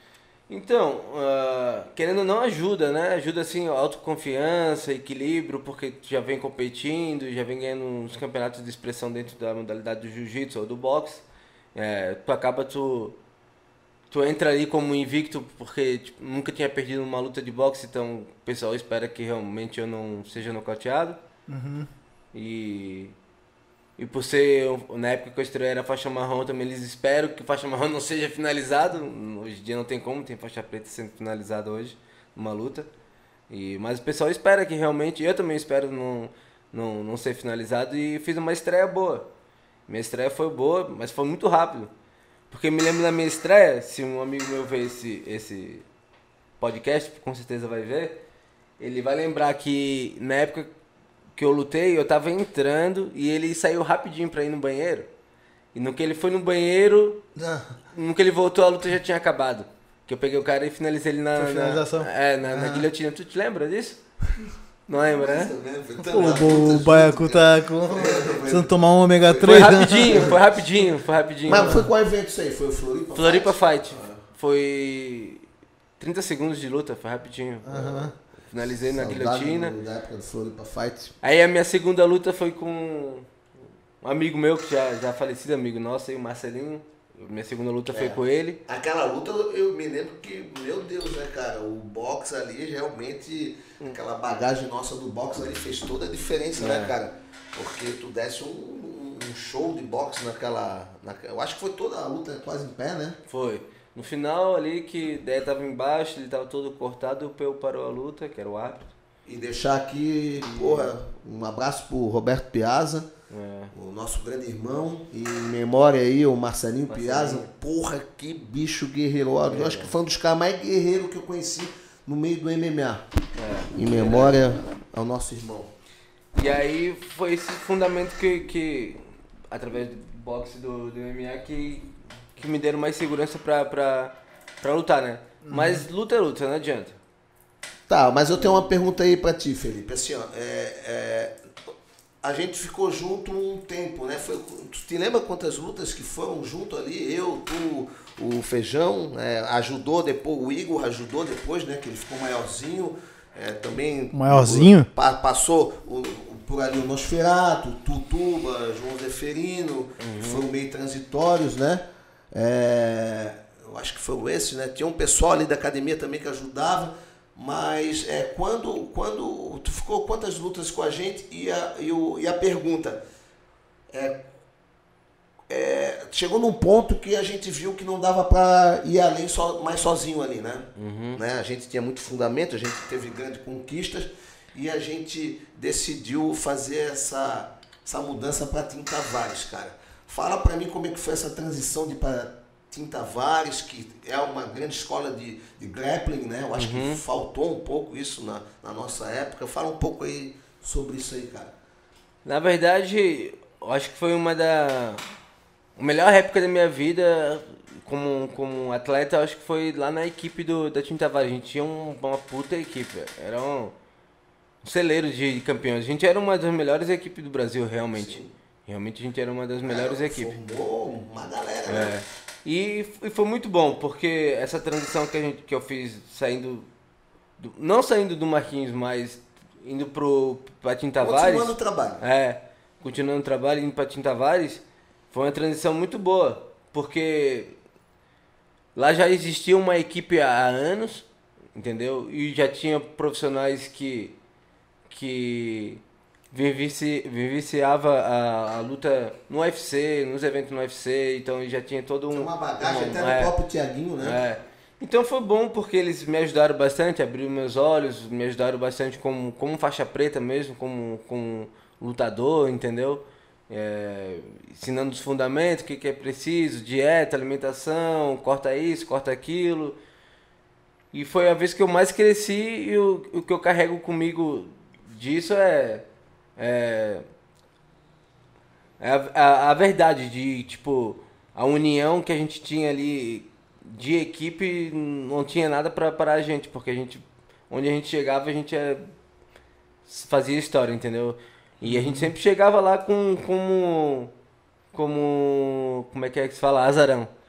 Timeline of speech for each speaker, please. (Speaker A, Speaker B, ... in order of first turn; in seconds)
Speaker A: 0.5-11.2, 11.7-13.2, 14.1-21.2, 22.3-23.1, 24.0-32.9, 33.5-39.2, 39.9-41.9, 42.5-45.8, 46.6-48.1, 48.8-50.7, 51.4-55.1, 55.7-57.2, 57.9-64.0, 64.9-65.5, 69.4-71.9, 73.1-75.4, 76.0-79.7, 81.2-83.3, 84.0-88.6, 96.6-96.9, 103.3-108.9, 110.4-110.9, 113.3-113.7, 116.9-117.5, 119.5-119.9, 123.4-124.6, 126.3-136.9, 138.4-138.7, 160.0-160.4, 180.8-181.2, 196.6-197.0, 202.2-205.0, 205.8-213.7, 214.6-220.3, 221.7-226.7, 227.4-237.5, 238.7-244.1, 244.9-253.3, 254.0-269.8, 270.9-275.8, 276.4-277.0, 278.8-288.8, 289.9-294.1, 294.7-297.1
Speaker B: 21.5-21.9, 57.4-57.7, 61.4-62.9, 66.0-70.3, 71.5-71.9, 77.6-78.1, 135.4-135.8, 154.1-154.9, 291.6-292.1
Speaker C: 65.0-70.6, 71.5-74.2, 78.6-81.1, 87.9-103.2, 109.2-113.1, 113.7-123.0, 123.7-125.7, 137.9-141.3, 142.2-173.0, 173.9-174.2, 175.5-201.5, 217.9-218.3, 219.7-221.9, 231.0-232.0, 252.1-254.2